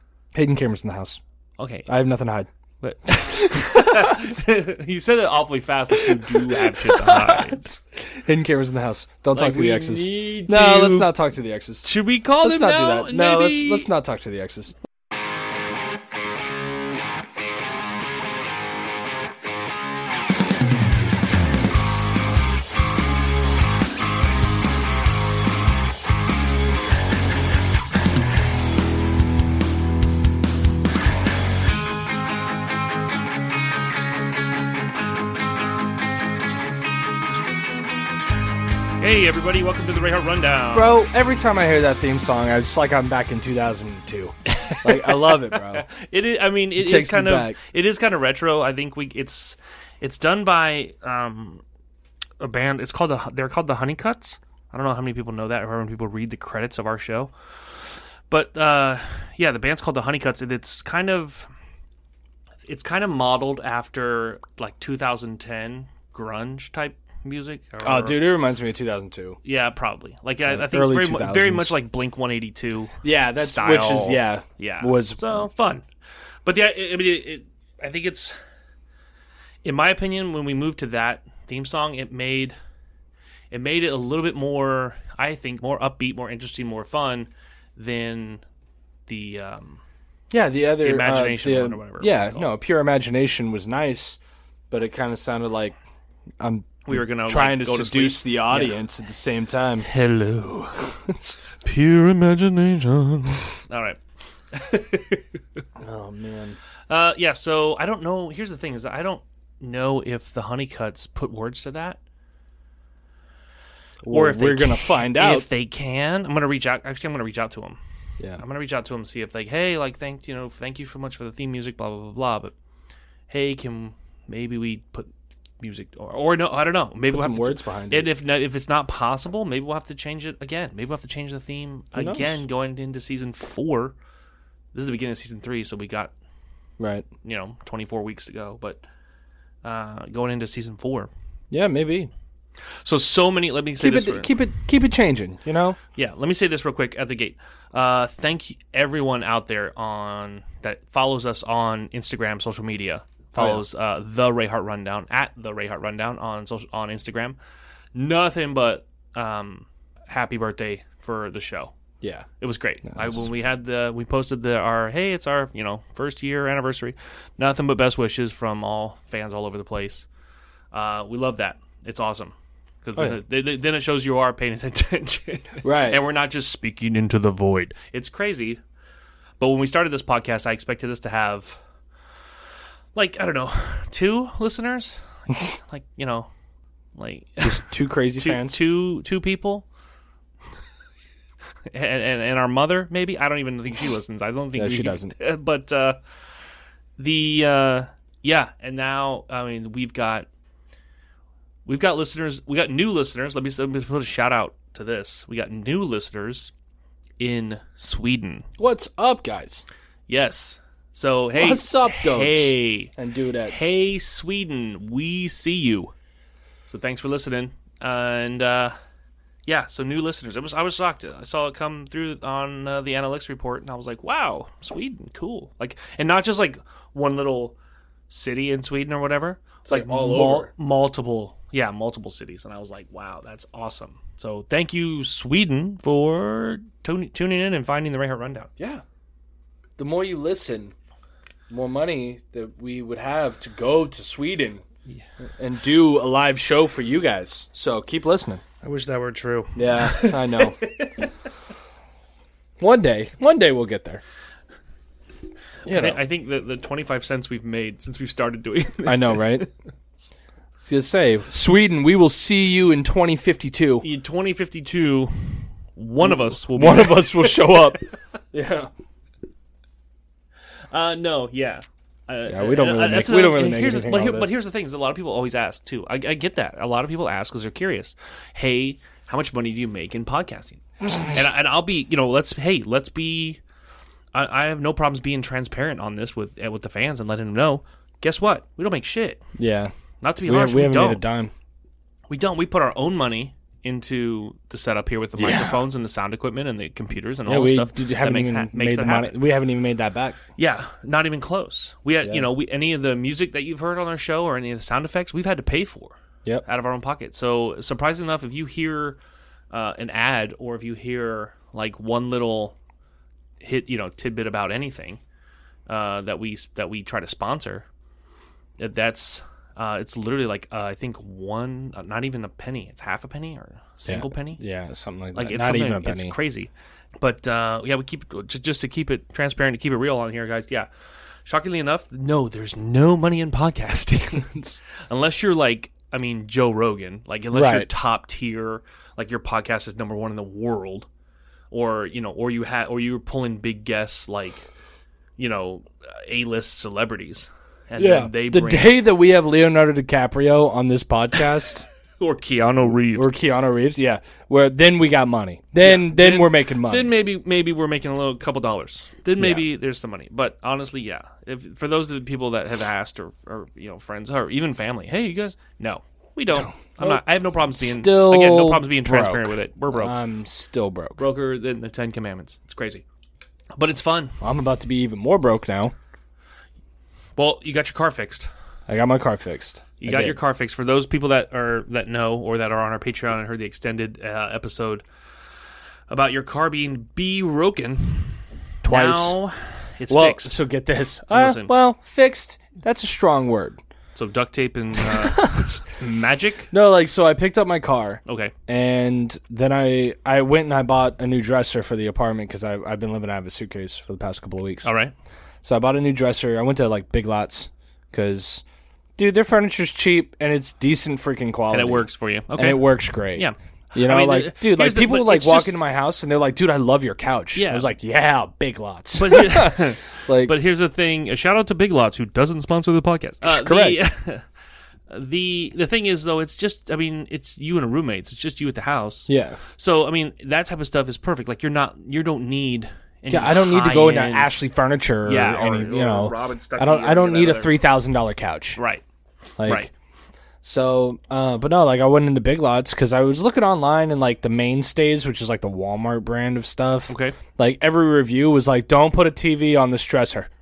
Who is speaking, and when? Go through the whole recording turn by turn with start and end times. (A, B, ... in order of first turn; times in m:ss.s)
0:00.3-0:01.2 A
0:01.6-0:01.9 B
0:01.9-0:02.5 A
0:02.8-0:07.7 B
0:03.1-0:04.3 A
0:05.9-0:11.9 A
0:09.3-0:11.1 B
0:11.8-0:13.9 B
0:12.4-0:14.7 A
0:39.0-0:41.0 B
0:40.7-0:45.9 A
0:44.5-0:51.6 B
0:46.8-0:47.6 A
0:52.4-0:57.3 B
0:58.3-1:01.5 B
1:02.6-1:08.2 B
1:07.8-1:09.4 A
1:09.4-1:15.8 B
1:10.5-1:11.7 A
1:13.0-1:15.5 A
1:16.4-1:18.4 B
1:19.6-1:22.5 B
1:23.5-1:28.4 B
1:29.1-1:29.8 B
1:30.3-1:34.2 A
1:30.8-1:32.5 B
1:34.7-1:35.8 A
1:36.4-1:39.9 A
1:36.8-1:38.8 B
1:39.8-1:40.9 B
1:41.0-1:41.4 A
1:41.5-1:44.0 B
1:44.5-1:45.3 B
1:45.8-1:46.6 A
1:46.9-1:52.0 B
1:54.0-1:55.5 A
1:54.1-1:57.8 B
1:58.4-2:02.5 B
2:03.3-2:14.0 B
2:07.1-2:08.1 A
2:11.9-2:12.4 A
2:14.7-2:16.1 B
2:16.8-2:17.0 A
2:17.2-2:18.8 B
2:19.6-2:21.1 B
2:21.5-2:22.1 A
2:22.8-2:24.3 B
2:23.8-2:25.8 A
2:26.0-2:37.4 B
2:33.3-2:33.6 A
2:37.9-2:41.7 B
2:42.0-2:42.3 A
2:42.4-2:50.1 B
2:42.9-2:43.2 A
2:50.7-2:58.6 B
2:55.6-2:56.0 A
2:59.4-3:01.6 B
3:02.9-3:06.3 B
3:06.9-3:07.6 B
3:07.4-3:08.6 A
3:08.2-3:09.6 B
3:11.7-3:16.0 B
3:14.6-3:15.1 A
3:17.0-3:20.3 B
3:21.6-3:26.5 B
3:27.2-3:28.5 B
3:28.6-3:29.6 A
3:30.1-3:32.9 B
3:31.3-3:33.7 A
3:33.4-3:35.9 B
3:36.6-3:38.7 B
3:39.4-3:47.6 B
3:48.1-3:58.5 B
3:49.6-3:50.5 A
3:58.6-3:58.8 A
3:59.8-4:00.7 A
4:01.5-4:04.6 A
4:05.4-4:08.4 A
4:08.6-4:11.1 B
4:09.5-4:10.6 A
4:12.6-4:14.0 A
4:15.6-4:16.0 A
4:15.6-4:19.4 B
4:18.8-4:19.4 A
4:20.6-4:23.8 A
4:23.8-4:27.8 B
4:26.0-4:28.7 A
4:30.7-4:43.4 B
4:32.3-4:34.3 A
4:44.1-4:49.2 B
4:49.4-4:49.7 A
4:50.0-4:51.0 B
4:50.2-4:51.3 A
4:52.1-4:59.2 B
4:55.2-4:55.6 A
4:57.3-5:00.2 A
5:00.4-5:09.0 B
5:09.5-5:12.5 B
5:13.4-5:15.0 B
5:15.7-5:17.7 B
5:18.6-5:24.4 B
5:23.8-5:26.1 A
5:25.1-5:30.7 B
5:31.2-5:40.9 B
5:34.2-5:34.6 A
5:37.3-5:37.7 A
5:41.5-5:44.4 B
5:45.2-5:48.8 B
5:47.8-5:51.6 A
5:52.0-5:53.1 B
5:52.9-5:56.9 A
5:55.6-6:09.9 B
5:59.2-5:59.4 A
6:06.4-6:07.0 A
6:07.6-6:11.0 A
6:11.0-6:12.8 B
6:13.6-6:14.2 B
6:14.2-6:15.7 A
6:17.2-6:18.3 B
6:18.7-6:20.2 A
6:19.8-6:24.8 B
6:25.9-6:30.4 B
6:28.6-6:29.2 A
6:29.9-6:33.6 A
6:31.1-6:31.5 B
6:33.9-6:36.5 B
6:34.8-6:35.6 A
6:36.5-6:44.7 A
6:38.0-6:38.3 B
6:44.6-6:44.9 B
6:45.4-6:48.4 A
6:49.0-7:00.3 A
6:51.5-6:55.6 B
6:57.3-6:57.7 B
6:58.9-7:04.2 B
7:03.2-7:03.8 A
7:04.9-7:14.3 B
7:09.1-7:09.4 A
7:13.1-7:18.6 A
7:15.0-7:17.6 B
7:18.6-7:18.8 B
7:19.4-7:19.7 A
7:19.4-7:19.7 B
7:20.4-7:30.3 A
7:26.9-7:27.2 B